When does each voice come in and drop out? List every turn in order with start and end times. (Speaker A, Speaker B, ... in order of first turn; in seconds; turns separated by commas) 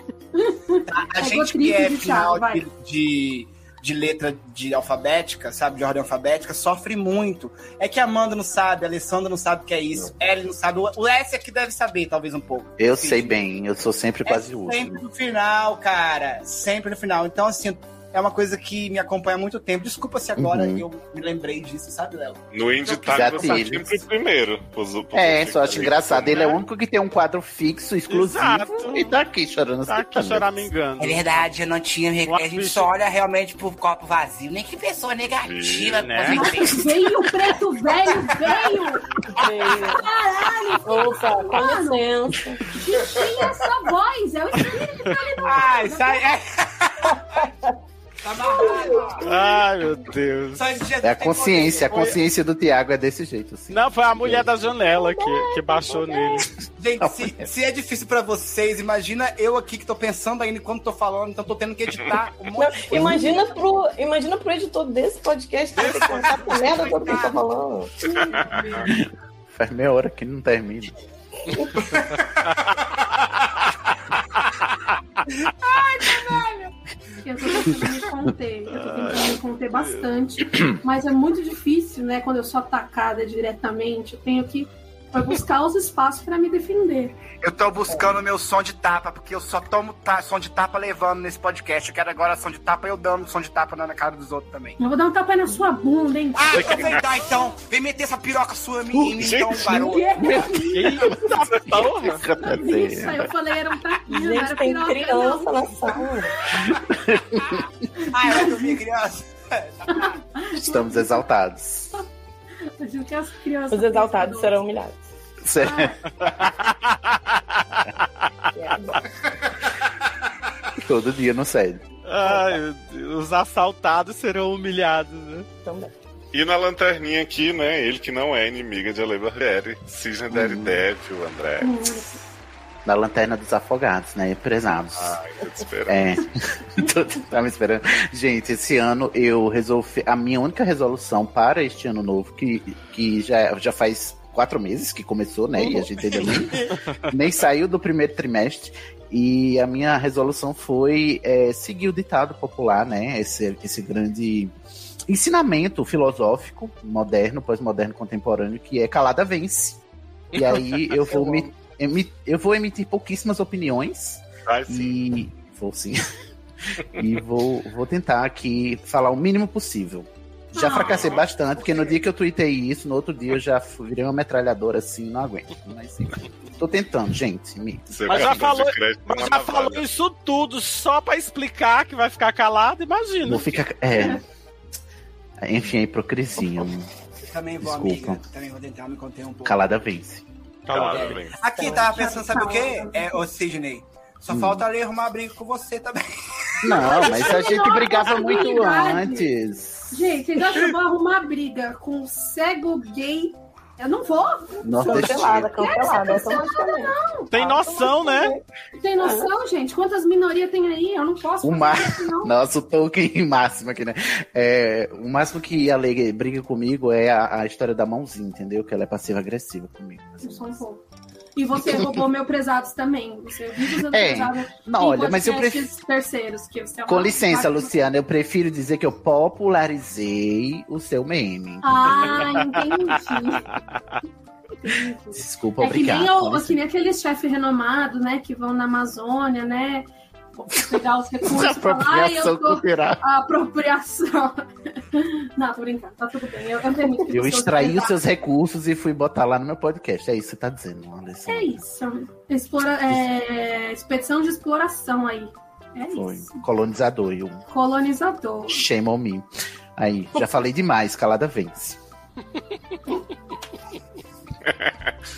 Speaker A: 0.4-2.7, Speaker B: 0.9-13.4, Speaker C: 12.8-15.0, Speaker B: 14.3-23.7, Speaker C: 20.4-20.8, Speaker D: 22.5-26.5, Speaker C: 23.0-24.0, Speaker C: 25.1-30.7, Speaker E: 28.1-29.2, Speaker E: 29.9-31.5, Speaker B: 31.0-37.0, Speaker E: 32.2-32.9, Speaker D: 35.4-36.1, Speaker E: 36.0-36.6, Speaker A: 36.3-39.1, Speaker B: 38.1-38.8, Speaker F: 39.3-40.1, Speaker A: 39.7-42.1, Speaker F: 40.8-42.7, Speaker A: 42.7-46.3, Speaker B: 45.4-47.5, Speaker B: 48.2-49.3, Speaker F: 48.6-49.5, Speaker E: 49.2-50.8, Speaker B: 50.5-52.1, Speaker C: 51.0-54.5, Speaker E: 51.9-52.2, Speaker E: 53.7-56.5, Speaker F: 54.8-56.5, Speaker B: 56.8-63.5, Speaker C: 57.0-57.5, Speaker F: 62.5-68.0, Speaker C: 62.9-63.3, Speaker B: 65.8-67.3, Speaker E: 66.3-67.2, Speaker D: 68.3-68.8, Speaker C: 68.8-70.9, Speaker F: 71.5-71.8, Speaker A: 75.6-87.2, Speaker E: 78.7-80.0, Speaker B: 87.4-94.8, Speaker A: 94.8-97.0, Speaker B: 96.4-100.2, Speaker D: 99.2-99.5, Speaker A: 99.7-101.2, Speaker C: 100.2-101.0, Speaker E: 100.7-102.2, Speaker C: 102.1-103.3, Speaker A: 102.4-105.7, Speaker F: 104.1-106.3, Speaker C: 106.5-107.6, Speaker A: 108.0-108.8, Speaker B: 108.1-110.2, Speaker A: 109.9-111.2, Speaker C: 110.6-111.9, Speaker A: 112.8-114.6, Speaker F: 113.7-115.0, Speaker C: 115.4-116.0, Speaker A: 115.6-116.0, Speaker E: 116.4-116.7, Speaker F: 118.5-119.0, Speaker C: 120.8-121.8, Speaker E: 122.1-125.5, Speaker F: 122.2-122.6, Speaker F: 125.6-125.9, Speaker D: 126.3-132.0, Speaker C: 130.3-130.8, Speaker A: 131.6-132.2, Speaker C: 132.8-135.2, Speaker D: 134.9-136.2, Speaker C: 135.9-154.5, Speaker C: 155.1-159.8, Speaker C: 160.3-166.0, Speaker F: 161.1-161.5, Speaker D: 164.5-165.0, Speaker C: 166.9-178.4, Speaker A: 170.5-171.1, Speaker D: 170.8-171.3, Speaker D: 177.9-179.8, Speaker E: 178.1-183.6, Speaker C: 183.2-184.2, Speaker C: 185.4-186.9, Speaker B: 187.3-189.7, Speaker C: 187.6-188.2, Speaker C: 189.4-190.2, Speaker E: 190.7-191.2, Speaker D: 190.7-191.4, Speaker B: 190.7-197.6, Speaker A: 191.6-193.2, Speaker C: 194.3-194.7, Speaker C: 196.6-200.0, Speaker A: 196.6-199.3, Speaker A: 199.9-207.3, Speaker C: 204.6-205.6, Speaker F: 204.8-208.4, Speaker E: 207.3-208.3, Speaker A: 208.8-212.3, Speaker F: 209.0-209.3, Speaker C: 211.4-220.6, Speaker A: 220.2-220.8, Speaker A: 221.4-227.8, Speaker C: 223.8-225.7, Speaker C: 226.9-232.3, Speaker A: 231.6-233.5, Speaker A: 234.6-248.0, Speaker C: 235.1-236.6, Speaker C: 241.2-243.0, Speaker C: 247.1-251.6, Speaker A: 251.3-256.4, Speaker C: 255.9-257.4, Speaker A: 257.5-258.6, Speaker C: 258.5-261.8, Speaker D: 264.4-264.9